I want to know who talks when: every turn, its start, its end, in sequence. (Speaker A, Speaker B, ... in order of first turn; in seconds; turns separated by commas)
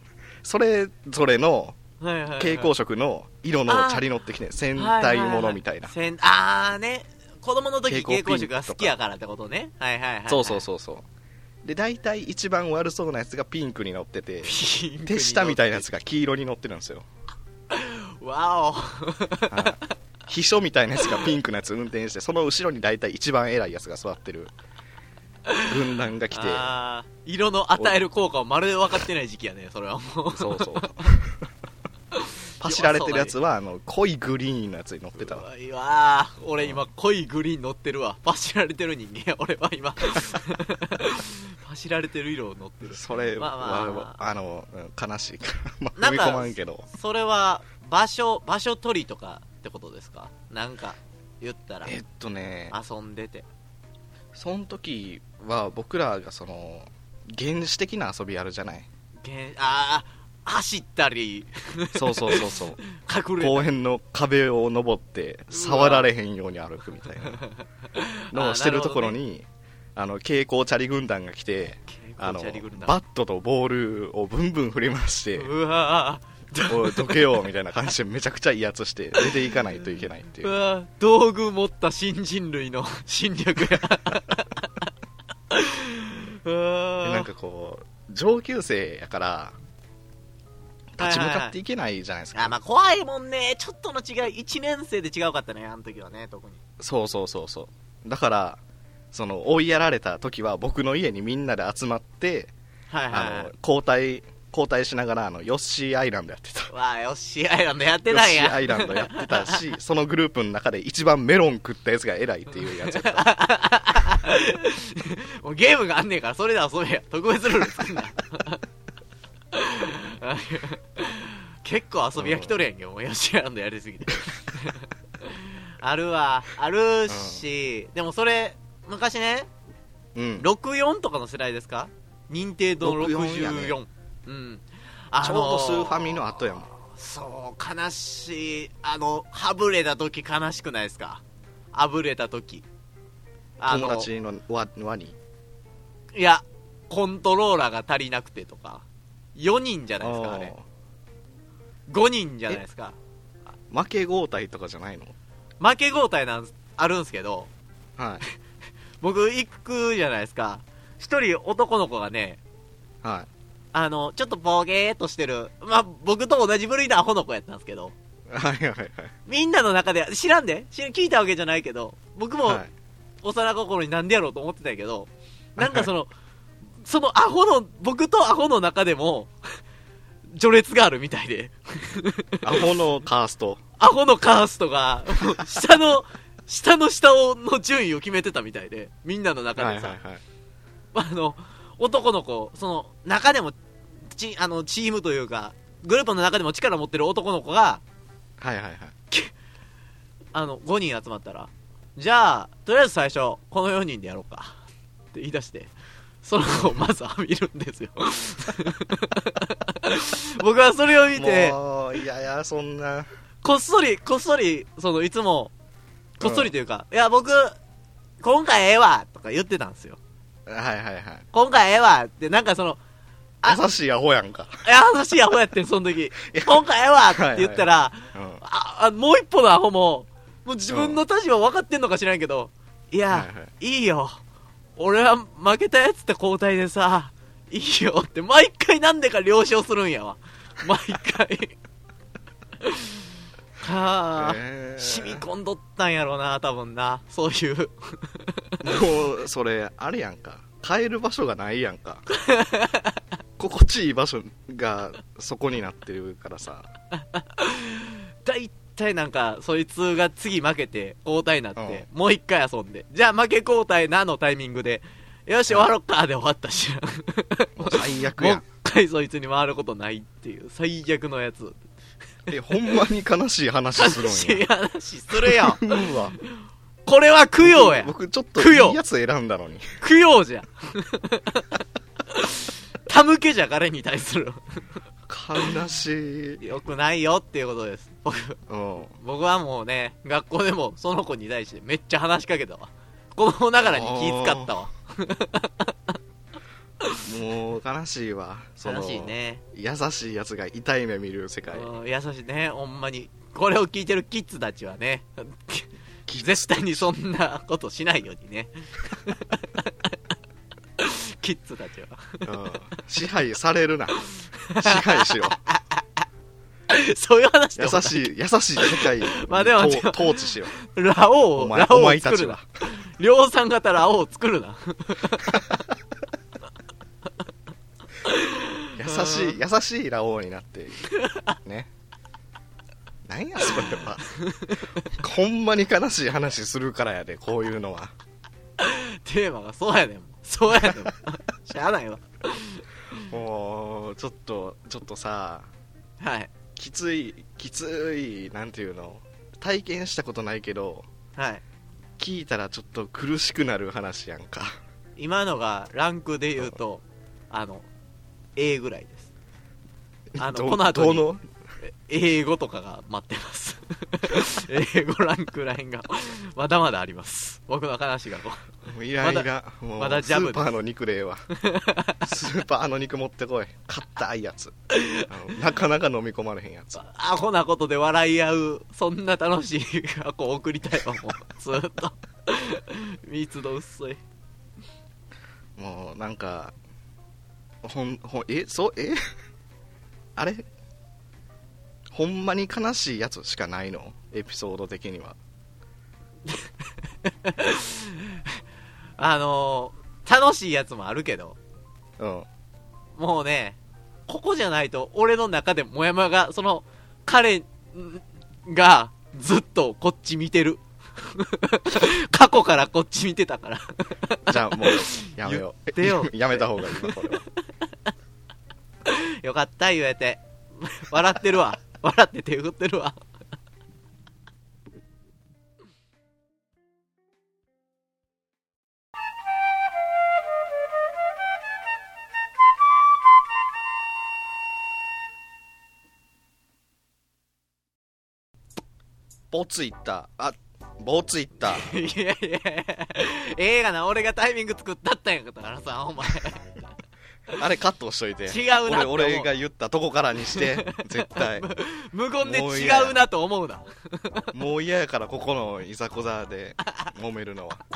Speaker A: 0.4-1.8, Speaker B: 2.0-2.7, Speaker A: 2.4-5.9, Speaker B: 3.7-4.0, Speaker B: 4.7-10.6, Speaker A: 7.9-8.9, Speaker A: 10.3-11.0, Speaker A: 11.6-17.1, Speaker B: 14.4-15.8, Speaker B: 17.7-19.8, Speaker A: 19.5-24.5, Speaker A: 25.6-26.7, Speaker B: 26.3-31.2, Speaker A: 30.3-31.3, Speaker B: 32.1-33.4, Speaker A: 32.6-35.5, Speaker B: 35.2-44.2, Speaker A: 36.6-36.8, Speaker A: 42.8-46.9, Speaker B: 46.0-51.9, Speaker A: 51.8-52.8, Speaker B: 52.7-53.4, Speaker A: 54.3-58.9, Speaker B: 59.2-63.7, Speaker A: 61.9-62.8, Speaker A: 63.4-67.4, Speaker B: 65.5-66.1, Speaker B: 67.2-69.1, Speaker A: 68.3-75.5, Speaker B: 71.9-73.0, Speaker B: 75.3-77.3, Speaker A: 76.6-80.5, Speaker B: 80.4-84.7, Speaker B: 85.5-87.3, Speaker A: 87.0-89.5, Speaker A: 90.9-92.5, Speaker B: 91.0-91.6, Speaker B: 92.3-96.6, Speaker A: 96.8-98.6, Speaker A: 99.1-102.5, Speaker B: 102.9-103.5, Speaker A: 103.1-106.7, Speaker B: 106.7-109.6, Speaker A: 108.1-113.3, Speaker B: 112.6-118.6, Speaker B: 119.5-129.5, Speaker A: 122.2-122.6, Speaker A: 127.1-127.4, Speaker A: 130.1-130.5, Speaker B: 130.4-141.2, Speaker A: 132.8-133.8, Speaker A: 135.2-136.7, Speaker B: 141.7-142.6, Speaker B: 143.6-144.1, Speaker A: 143.7-145.2, Speaker B: 146.1-148.8, Speaker B: 149.3-150.5, Speaker A: 150.0-150.6, Speaker B: 151.9-153.0, Speaker A: 153.7-155.1, Speaker B: 155.6-157.5, Speaker A: 158.0-158.2, Speaker B: 159.0-162.4, Speaker A: 163.0-163.3, Speaker B: 163.7-167.9, Speaker A: 168.3-169.1, Speaker B: 169.2-172.6, Speaker B: 173.2-176.1, Speaker A: 175.6-175.9, Speaker B: 176.8-179.3, Speaker B: 180.3-182.7, Speaker A: 182.4-183.6, Speaker B: 183.8-190.0, Speaker A: 189.6-190.2, Speaker B: 190.9-197.8, Speaker A: 198.4-198.9, Speaker B: 200.3-204.6, Speaker B: 205.1-211.6, Speaker A: 211.1-213.1, Speaker B: 213.4-215.5, Speaker B: 216.2-217.6, Speaker A: 216.2-216.5, Speaker B: 218.2-220.0, Speaker A: 220.5-221.2, Speaker B: 221.3-222.8, Speaker A: 223.4-224.6, Speaker B: 224.6-234.2, Speaker A: 226.3-228.4, Speaker A: 230.7-231.0, Speaker A: 233.1-233.5, Speaker B: 234.8-241.6, Speaker B: 242.6-242.9, Speaker B: 243.6-248.5, Speaker A: 244.2-245.2, Speaker A: 248.6-252.0, Speaker B: 252.1-253.0, Speaker A: 253.4-256.7, Speaker B: 257.0-271.6, Speaker A: 261.6-261.9, Speaker A: 267.6-268.4, Speaker A: 272.3-274.4, Speaker B: 273.8-275.9, Speaker A: 275.1-276.1, Speaker B: 276.9-278.8, Speaker A: 277.4-279.7, Speaker B: 279.8-281.5, Speaker B: 282.1-284.7, Speaker A: 285.1-286.4, Speaker B: 286.4-288.4, Speaker A: 288.5-288.9, Speaker B: 289.0-295.7, Speaker A: 293.6-294.5, Speaker A: 297.0-301.7, Speaker B: 298.6-299.4, Speaker B: 301.5-309.9, Speaker A: 306.1-306.9, Speaker B: 310.8-312.3, Speaker A: 312.2-314.0, Speaker B: 314.2-316.0, Speaker A: 314.6-315.4, Speaker B: 316.7-318.1, Speaker A: 317.6-320.5, Speaker B: 318.6-325.5, Speaker A: 321.4-322.4, Speaker B: 328.0-329.4, Speaker A: 328.8-330.9, Speaker B: 330.9-331.3, Speaker A: 331.4-331.7, Speaker A: 333.0-334.1, Speaker B: 333.6-334.9, Speaker A: 334.9-337.9, Speaker B: 338.6-342.6, Speaker A: 342.9-345.5, Speaker B: 346.0-346.3, Speaker A: 346.6-350.9, Speaker B: 351.1-351.4, Speaker A: 352.0-354.5, Speaker B: 355.0-357.7, Speaker B: 358.4-359.1, Speaker A: 360.1-361.2, Speaker B: 360.2-361.1, Speaker B: 361.6-370.5, Speaker A: 368.6-371.3, Speaker B: 371.3-372.0, Speaker A: 372.0-374.5, Speaker B: 374.7-375.1, Speaker A: 375.1-376.8, Speaker B: 376.8-384.0, Speaker A: 385.6-386.5, Speaker A: 387.6-389.1, Speaker A: 390.1-390.5, Speaker A: 391.9-395.2, Speaker B: 397.0-398.4, Speaker B: 399.0-401.4, Speaker A: 402.0-402.3, Speaker B: 403.0-417.1, Speaker A: 414.3-417.2, Speaker B: 418.8-423.0, Speaker A: 439.3-441.8, Speaker B: 441.4-446.6, Speaker A: 447.3-451.5, Speaker B: 448.3-449.3, Speaker B: 450.3-454.3, Speaker A: 452.2-453.0, Speaker A: 454.3-457.6